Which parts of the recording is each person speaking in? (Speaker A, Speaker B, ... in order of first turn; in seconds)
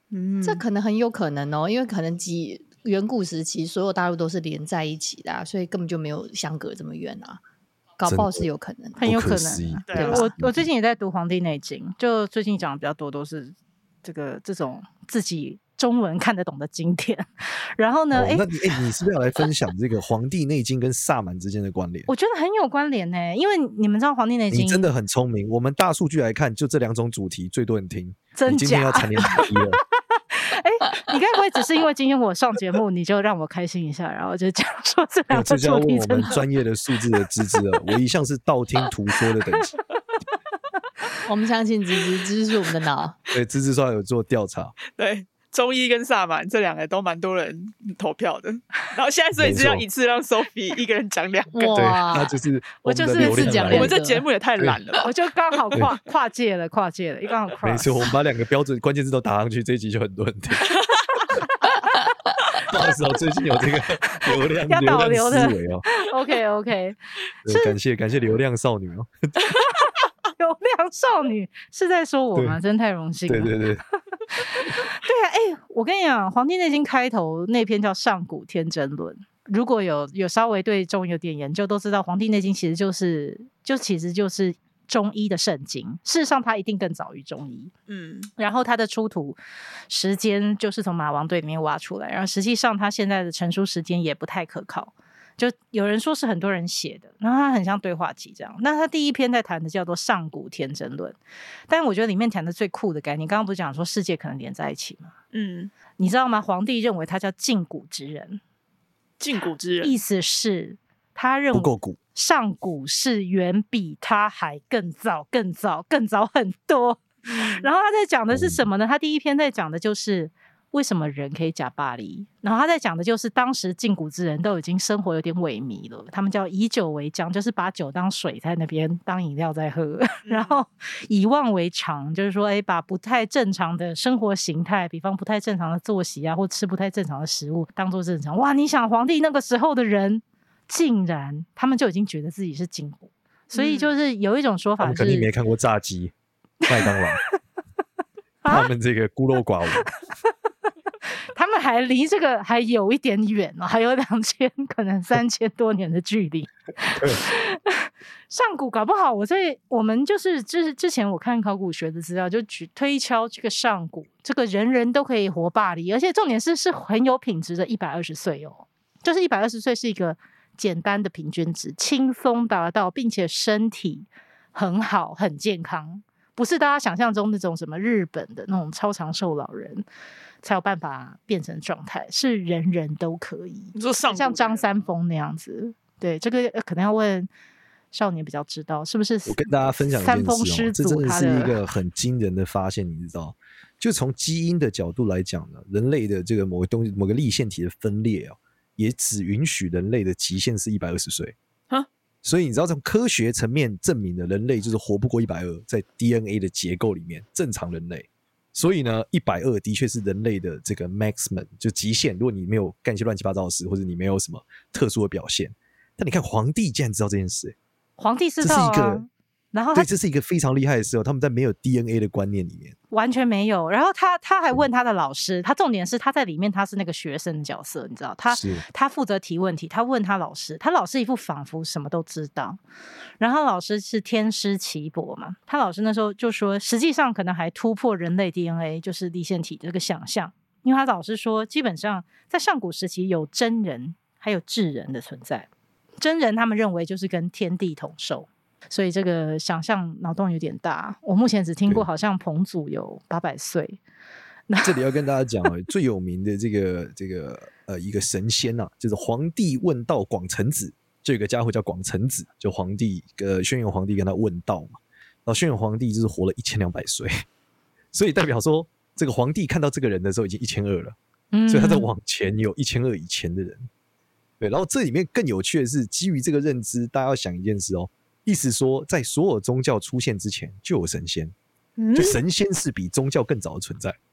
Speaker A: 0.1-0.6, 9.9-10.2, 44.9-52.0, 53.7-55.1, 60.7-61.2, 87.9-88.3, 105.3-105.7, 109.2-109.9, 117.2-117.7, 130.2-130.6, 143.5-143.9, 183.7-184.8, 281.8-282.2
Speaker B: 0.4-7.4, 8.0-9.0, 41.2-43.1, 51.5-52.3, 53.2-54.2
Speaker C: 8.1-8.5, 9.0-10.6, 18.1-22.1, 24.5-29.8, 35.3-39.8, 43.3-44.7, 49.4-49.8, 51.7-54.0, 57.6-60.6, 62.6-65.9, 67.4-69.3, 73.3-73.8, 111.5-112.0, 118.3-118.6, 144.8-146.1, 146.6-147.2, 148.5-149.9, 189.2-201.3, 202.2-217.6, 218.4-219.0, 219.7-222.8, 228.3-228.6, 254.6-267.1, 267.9-270.9, 271.5-273.7, 274.4-281.3, 281.9-284.0
Speaker D: 9.0-18.5, 22.1-24.9, 28.3-29.5, 30.3-36.4, 52.8-53.9, 55.0-58.1, 64.7-67.8, 70.4-73.5, 74.4-87.7, 88.4-89.4, 89.9-101.2, 101.7-105.1, 106.0-108.4, 109.8-145.3, 148.4-148.7, 151.3-179.8, 180.4-187.3, 187.9-191.6, 218.0-219.9, 222.9-232.6, 233.2-245.5, 246.0-253.8, 254.5-254.8, 271.3-271.9